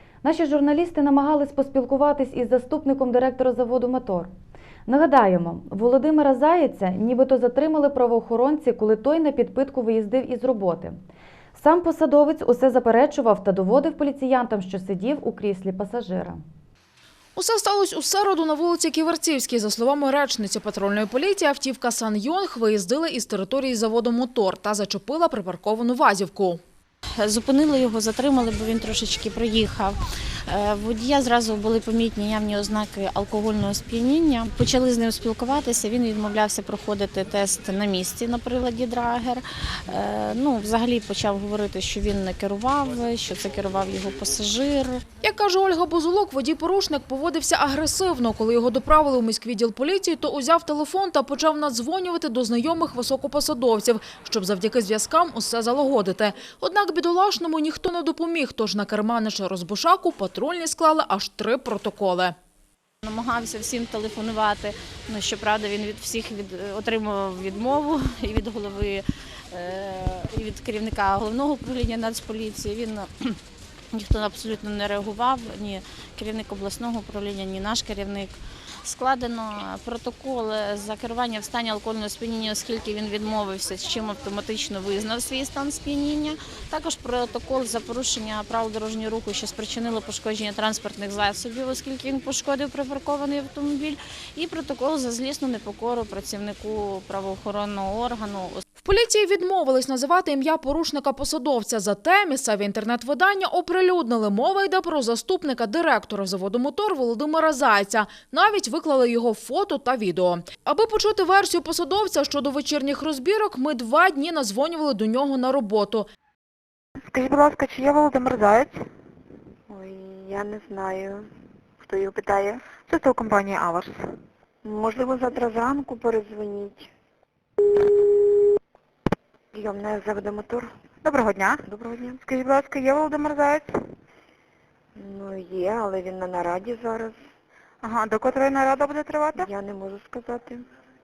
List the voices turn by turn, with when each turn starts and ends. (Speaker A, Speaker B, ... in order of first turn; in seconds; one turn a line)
Speaker A: 0.2-4.3
Speaker A: 4.9-11.0
Speaker A: 11.6-16.4
Speaker B: 17.4-26.6
Speaker C: 27.2-45.0
Speaker B: 45.2-62.4
Speaker C: 63.0-73.4
Speaker C: 73.9-98.6
Speaker B: 98.8-116.1
Speaker D: 117.1-118.7
Speaker E: 119.7-121.2
Speaker E: 121.8-122.6
Speaker D: 122.7-123.9
Speaker E: 124.6-126.9
Speaker E: 129.5-130.7
Speaker D: 131.0-131.7
Speaker E: 131.7-132.2
Speaker D: 132.2-133.7
Speaker E: 135.0-137.2
Speaker D: 137.8-139.5
Speaker E: 139.3-140.6